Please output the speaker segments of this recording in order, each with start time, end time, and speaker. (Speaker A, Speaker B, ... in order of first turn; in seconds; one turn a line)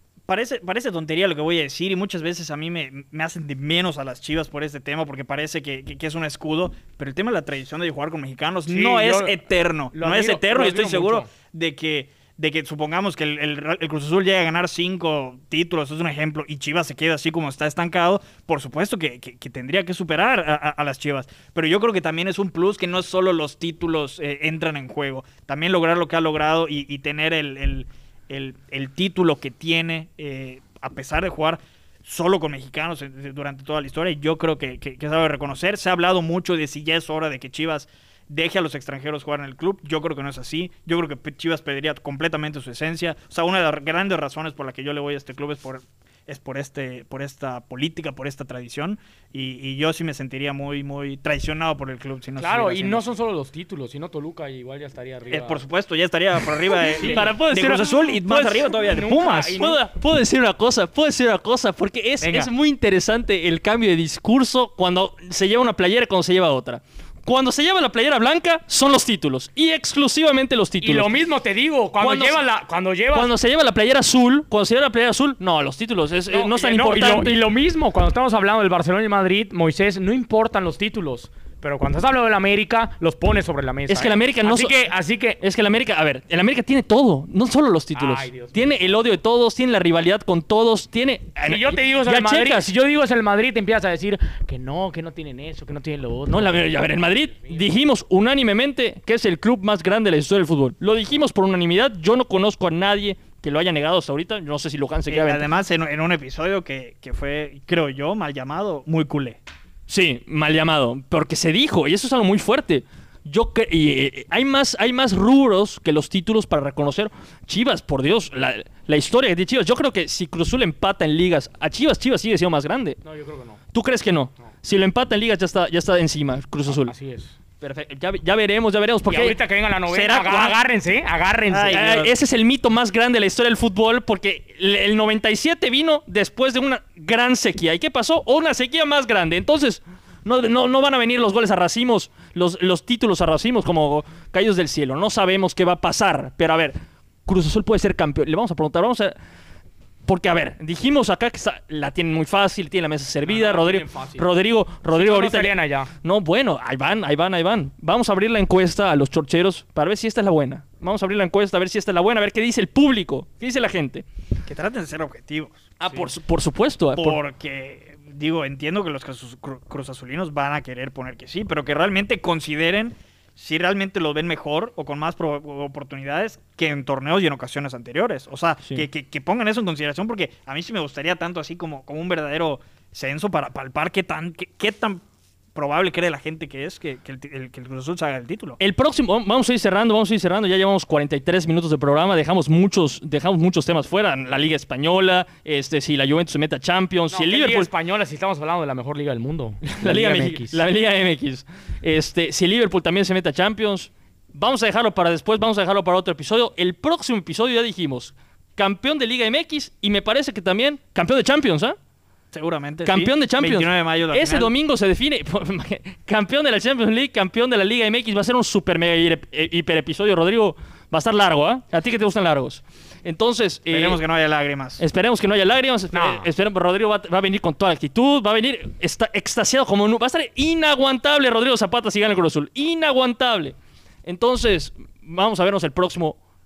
Speaker A: 0.3-53.1
Speaker B: 8.7-9.4
Speaker B: 9.9-11.3
Speaker B: 52.4-55.6
Speaker A: 55.3-59.6
Speaker C: 56.7-58.7
Speaker B: 56.9-57.4
Speaker B: 58.8-59.8
Speaker C: 59.5-71.2
Speaker A: 62.2-62.5
Speaker B: 70.8-73.3
Speaker C: 72.0-72.4
Speaker C: 73.1-77.4
Speaker B: 76.3-85.4
Speaker C: 83.9-84.8
Speaker C: 85.4-92.7
Speaker B: 87.9-88.9
Speaker B: 91.4-97.7
Speaker C: 96.3-105.4
Speaker A: 105.1-109.4
Speaker C: 109.9-123.0
Speaker B: 123.0-123.6
Speaker C: 123.7-126.9
Speaker B: 126.7-127.3
Speaker C: 127.6-129.4
Speaker B: 129.1-131.9
Speaker A: 129.9-130.5
Speaker A: 131.5-132.1
Speaker C: 131.7-146.7
Speaker C: 147.2-149.1
Speaker C: 150.1-164.0
Speaker B: 153.2-154.2
Speaker B: 154.9-155.9
Speaker A: 164.5-165.7
Speaker C: 165.8-167.2
Speaker A: 166.9-185.0
Speaker A: 185.5-188.6
Speaker C: 188.6-197.7
Speaker B: 197.1-200.6
Speaker C: 199.7-211.8
Speaker A: 212.3-214.5
Speaker C: 212.8-224.0
Speaker A: 223.7-224.8
Speaker C: 224.8-236.2
Speaker B: 225.9-226.3